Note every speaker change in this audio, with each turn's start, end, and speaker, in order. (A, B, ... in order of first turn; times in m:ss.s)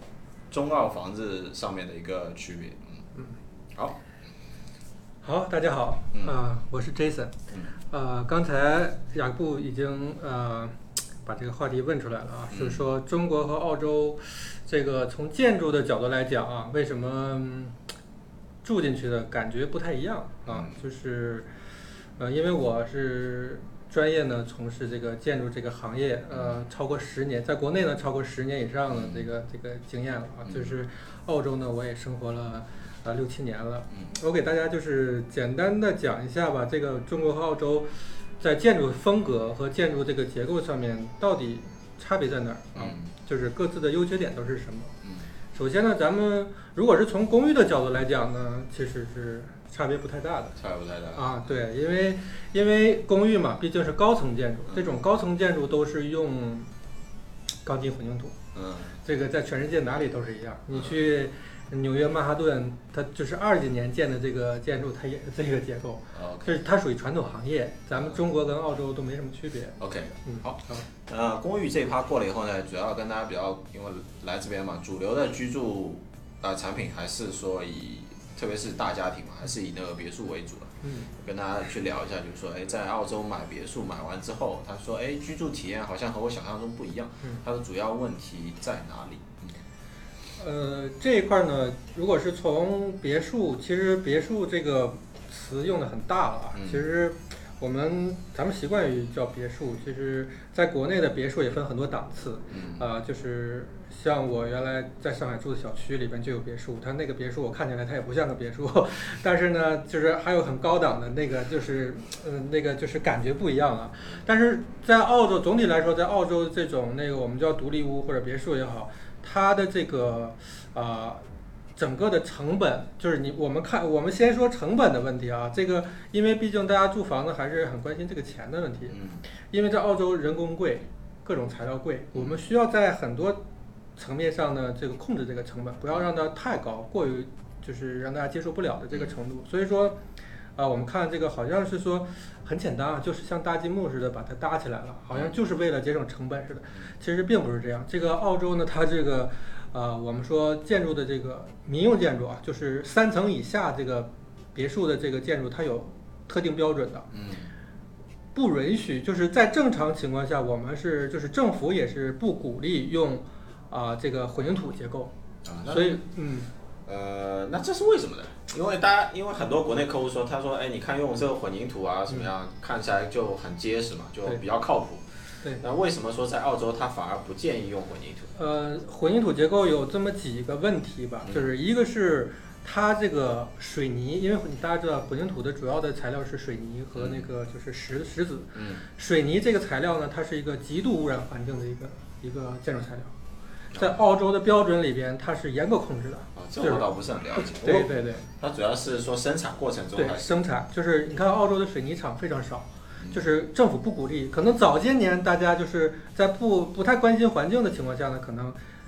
0:00.5-0:03.0 A
0:05.2-0:07.3 B
0:06.1-0:06.4 A
0:07.9-0:10.7 B
0:11.2-0:17.7 B
0:12.5-0:12.9 A
0:18.6-0:21.5 B
0:20.4-0:20.8 A
0:22.2-0:37.9 B
0:26.3-0:26.6 A
0:28.9-0:29.3 A
0:30.4-0:30.8 A
0:38.4-0:44.9 B
0:42.7-0:43.1 A
0:45.0-0:45.3 A
0:45.5-0:50.5 B
0:50.6-0:51.3 A
0:51.1-0:56.7 B
0:57.6-0:58.3 B
0:58.5-0:59.0 A
0:59.0-1:10.8 B
1:06.1-1:06.6 A
1:07.9-1:08.2 A
1:09.8-1:29.5 A
1:20.8-1:21.1 B
1:30.4-2:01.2 B
1:36.5-1:36.9 A
1:42.5-1:42.9 A
2:01.8-2:09.0 B
2:08.9-2:09.2 A
2:09.5-2:13.4 B
2:12.1-2:12.4 A
2:14.0-2:20.0 B
2:20.6-2:37.1 B
2:37.1-2:37.5 A
2:38.3-2:45.1 B
2:45.4-2:46.0 A
2:45.7-2:46.5 B
2:46.8-2:55.1 A
2:55.6-2:58.3 A
2:58.3-3:13.1 B
3:01.2-3:01.5 A
3:06.9-3:07.3 A
3:08.5-3:08.8 A
3:13.7-3:14.0 A
3:13.8-3:18.2 B
3:16.3-3:20.4 A
3:19.9-3:28.6 B